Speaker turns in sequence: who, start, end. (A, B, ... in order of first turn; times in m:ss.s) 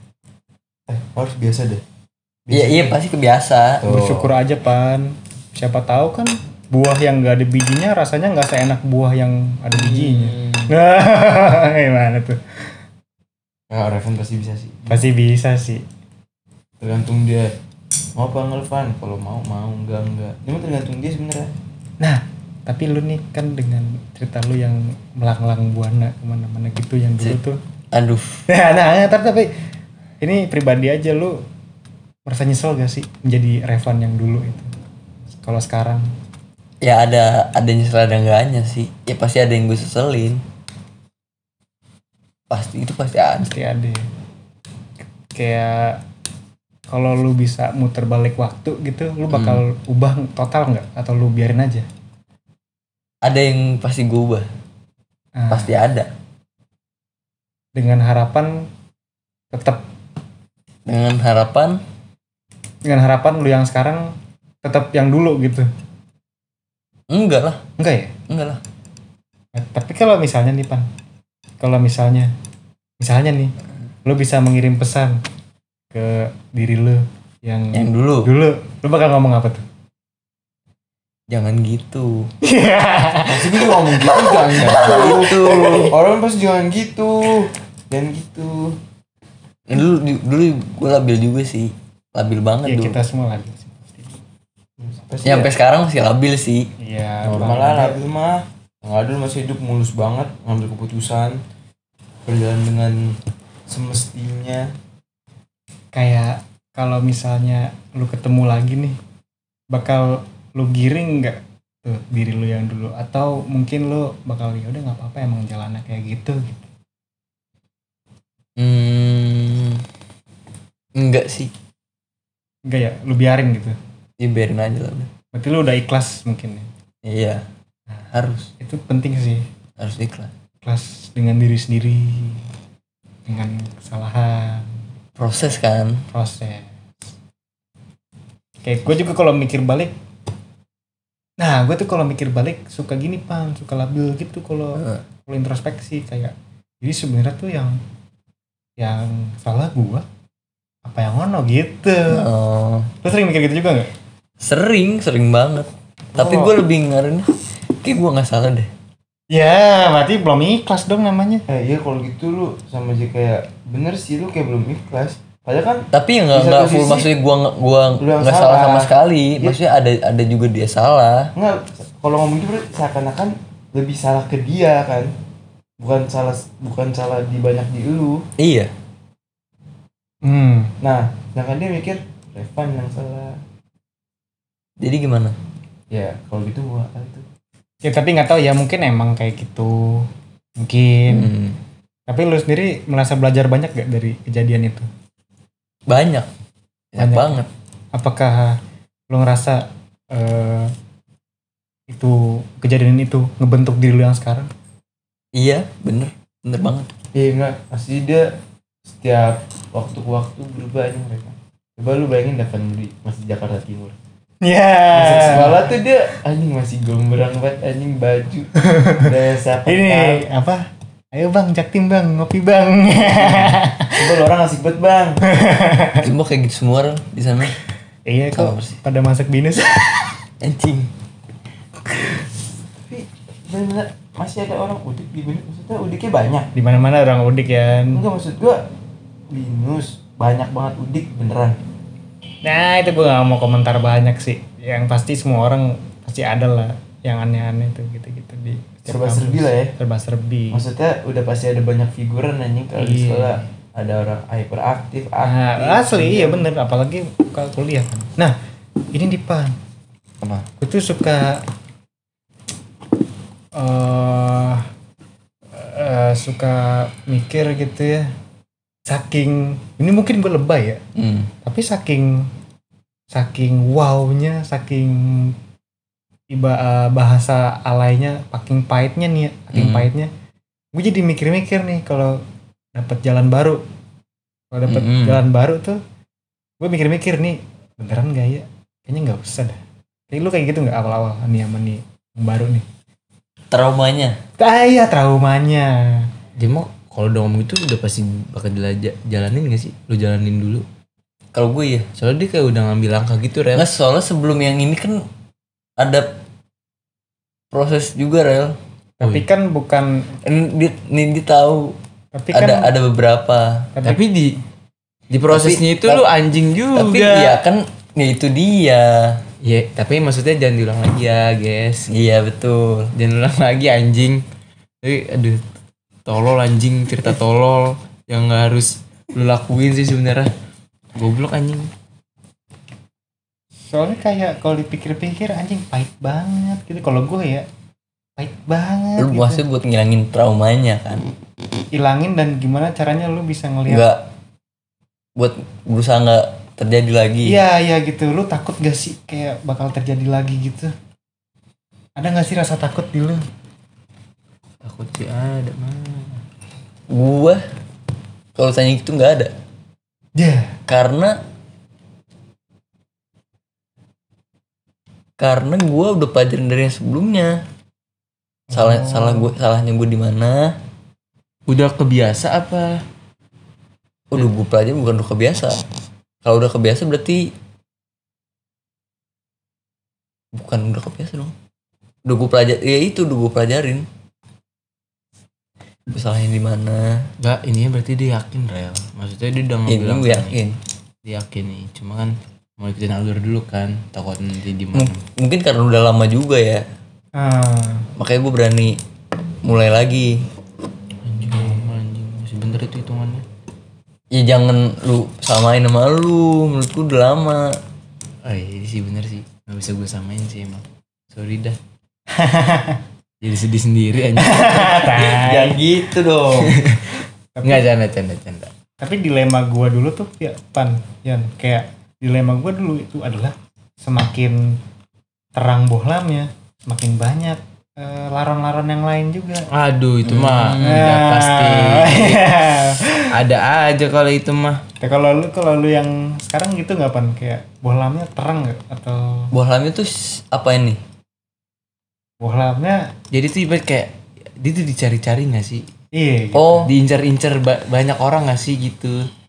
0:00.9-0:01.8 A
0:02.5-0:03.0 A
0:02.5-0:03.8 B
0:03.8-0:04.3 A
0:03.9-0:12.6 C
0:09.7-0:10.7 A
0:13.7-0:15.0 A
0:14.9-0:15.8 C
0:16.8-0:17.5 A
0:18.1-0:21.5 A
0:22.0-0:27.6 C
0:27.9-0:28.4 B
0:28.5-0:29.5 C
0:30.2-0:31.4 C
0:32.2-0:34.7 C
0:35.4-0:36.1 C
0:36.8-0:40.4 B
0:42.5-0:43.5 B
0:43.4-0:44.1 C
0:45.3-0:46.0 C
0:46.9-0:51.8 C
0:49.3-0:49.6 B
0:53.2-0:54.5 B
0:55.4-0:55.8 C
0:55.5-0:56.1 B
0:57.8-0:58.7 C
0:59.5-0:59.8 C
1:00.8-1:01.8 B
1:02.8-1:05.7 C
1:07.1-1:07.6 B
1:07.8-1:08.1 C
1:08.3-1:08.6 B
1:09.5-1:10.9 C
1:11.6-1:12.3 C
1:13.0-1:13.5 C
1:14.0-1:15.2 C
1:15.9-1:19.6 C
1:17.7-1:18.3 B
1:21.3-1:22.3 B
1:22.4-1:24.1 C
1:23.2-1:28.8 A
1:24.0-1:26.0 B
1:29.7-1:33.0 B
1:32.6-1:34.2 C
1:34.8-1:35.5 A
1:35.2-1:36.7 B
1:36.8-1:38.0 C
1:37.2-1:41.4 A
1:42.2-1:43.2 A
1:43.7-1:44.7 A
1:45.9-1:49.0 C
1:49.7-1:56.7 C
1:58.6-1:59.8 B
2:01.0-2:01.5 B
2:02.7-2:03.8 C
2:04.2-2:05.1 B
2:05.3-2:06.7 C
2:07.0-2:07.4 B
2:08.1-2:08.5 B
2:08.6-2:09.4 C
2:09.8-2:10.3 B
2:10.6-2:12.4 C
2:13.3-2:14.7 C
2:15.2-2:16.0 B
2:16.1-2:16.7 C
2:18.6-2:19.9 C
2:21.4-2:27.8 C
2:24.8-2:25.0 B
2:28.8-2:30.0 C
2:30.8-2:32.3 C
2:32.1-2:32.9 B
2:33.0-2:33.9 C
2:34.4-2:38.7 B
2:36.1-2:36.5 A
2:39.3-2:41.4 C
2:41.5-2:47.1 A
2:45.9-2:51.3 B
2:48.0-2:49.6 A
2:51.4-2:55.1 A
2:55.8-2:58.2 A
2:58.4-2:58.7 B
3:00.2-3:00.7 C
3:00.8-3:03.4 A
3:04.8-3:05.4 B
3:05.9-3:07.3 A
3:07.8-3:10.1 C
3:10.6-3:11.3 C
3:11.1-3:11.6 B
3:12.1-3:14.9 C
3:15.9-3:16.3 B
3:16.9-3:17.5 B
3:17.0-3:18.6 C
3:19.1-3:20.7 C
3:21.9-3:24.5 C
3:25.3-3:26.9 B
3:27.1-3:28.3 A
3:28.9-3:33.9 A
3:34.4-3:35.7 C
3:34.9-3:40.2 A
3:38.6-3:39.1 C
3:39.6-3:44.1 C
3:43.2-3:45.2 A
3:45.2-3:46.1 C
3:46.0-3:47.6 B
3:48.1-3:50.2 C
3:48.4-3:48.8 B
3:50.4-3:50.9 B
3:52.9-3:56.5 A
3:56.5-3:58.0 C
3:57.9-3:58.6 A
3:59.3-4:01.6 A
4:02.4-4:10.6 C
4:08.9-4:09.7 A
4:10.5-4:16.5 A
4:12.8-4:13.4 C
4:15.2-4:18.3 C
4:18.9-4:19.5 C
4:20.6-4:21.4 C
4:23.6-4:24.7 C
4:25.5-4:28.1 C
4:28.9-4:30.8 C
4:30.9-4:31.3 B
4:31.4-4:32.3 C
4:33.1-4:35.3 C
4:36.3-4:40.1 C
4:39.5-4:39.9 B
4:40.7-4:42.2 C
4:42.7-4:43.6 C
4:44.5-4:45.8 C
4:44.7-4:45.2 B
4:46.6-4:49.6 C
4:50.1-4:52.6 C
4:53.5-4:54.2 B
4:54.4-4:56.1 C
4:56.4-5:00.6 A
5:01.3-5:01.9 B
5:02.0-5:03.7 A
5:03.5-5:05.0 B
5:05.8-5:06.1 B
5:07.5-5:08.6 B
5:09.0-5:10.1 C
5:10.2-5:11.8 B
5:12.1-5:12.7 C
5:12.3-5:13.7 B
5:13.8-5:14.0 C
5:13.8-5:14.4 A
5:15.1-5:17.4 A
5:15.3-5:16.0 B
5:16.7-5:19.2 B
5:19.4-5:21.9 A
5:21.9-5:22.9 B
5:22.9-5:24.2 A
5:24.8-5:25.4 A
5:26.0-5:30.3 A
5:30.9-5:31.7 A
5:33.7-5:37.4 C
5:38.2-5:39.4 C
5:39.0-5:41.1 B
5:41.7-5:43.9 C
5:43.7-5:44.0 B
5:45.2-5:47.4 B
5:47.2-5:50.7 C
5:52.0-5:53.2 C
5:54.6-5:56.2 A
5:56.9-5:57.4 B
5:58.3-5:59.3 B
6:00.2-6:00.6 C
6:00.7-6:01.2 B
6:05.2-6:07.4 B
6:08.5-6:09.3 C
6:08.5-6:10.6 B
6:11.5-6:12.8 A
6:14.1-6:15.6 B
6:16.2-6:17.3 B
6:20.3-6:21.3 B
6:22.0-6:23.8 B
6:25.9-6:27.1 B
6:27.2-6:30.4 A
6:29.7-6:30.6 B
6:31.0-6:35.0 A
6:34.7-6:36.6 B
6:37.2-6:37.9 C
6:38.0-6:38.8 B
6:39.4-6:40.2 B
6:41.0-6:43.2 A
6:41.3-6:41.6 C
6:44.1-6:47.6 B
6:48.2-6:51.6 A
6:52.1-6:52.8 C
6:53.2-6:55.2 A
6:54.2-6:55.6 C
6:55.0-6:56.6 B
6:56.3-6:58.5 A
6:57.4-6:57.6 C
6:58.8-7:04.6 C
7:05.4-7:09.5 C
7:09.5-7:12.3 A
7:10.0-7:10.9 B
7:10.6-7:13.1 C
7:13.1-7:14.6 A
7:14.8-7:19.3 C
7:19.3-7:20.8 B
7:22.2-7:22.9 C
7:23.1-7:25.7 A
7:25.9-7:26.7 C
7:26.3-7:26.7 B
7:26.7-7:29.1 A